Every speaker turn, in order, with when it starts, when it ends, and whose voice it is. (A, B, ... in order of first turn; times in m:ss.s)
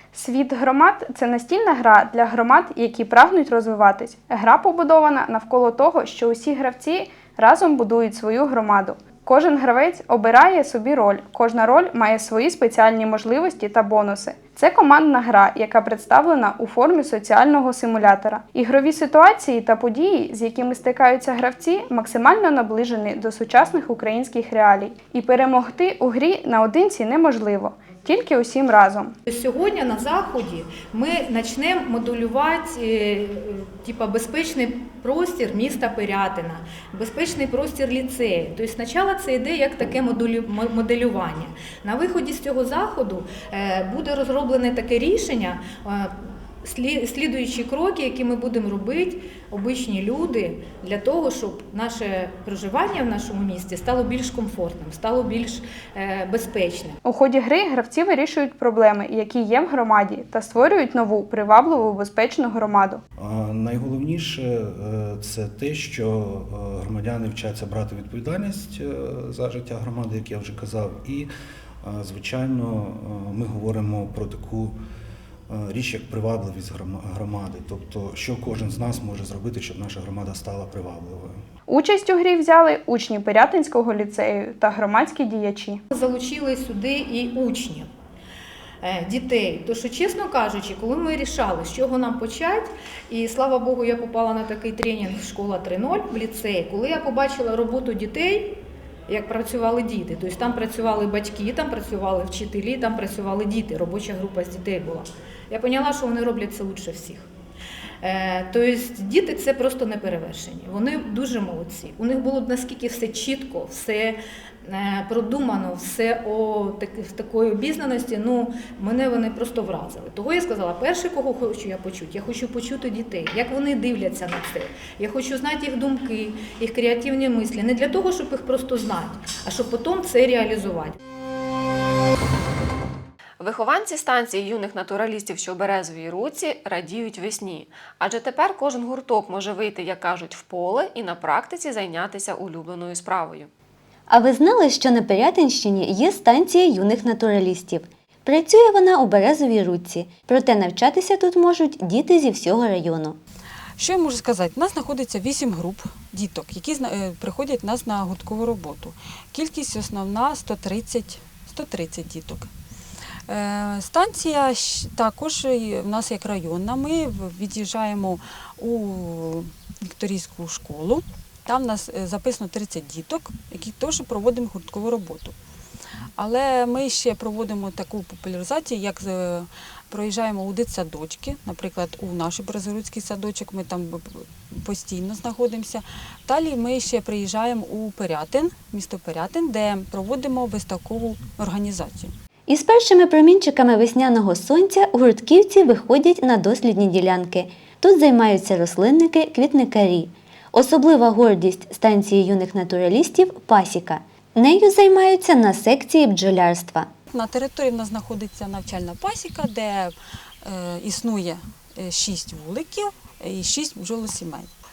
0:00.1-0:29.2 A
0:29.3-0:57.0 B
0:57.0-1:03.0 A
1:03.2-1:11.3 C
1:11.8-1:14.8 C
1:15.5-1:21.4 C
1:21.7-1:25.8 A
1:25.9-1:27.9 B
1:28.8-1:47.3 B
1:48.0-2:11.0 B
2:13.4-2:23.5 D
2:24.1-2:33.2 E
2:33.8-2:42.5 F
2:43.3-2:55.4 F
2:56.2-3:12.1 F
3:12.5-3:26.9 E
3:27.1-3:34.5 F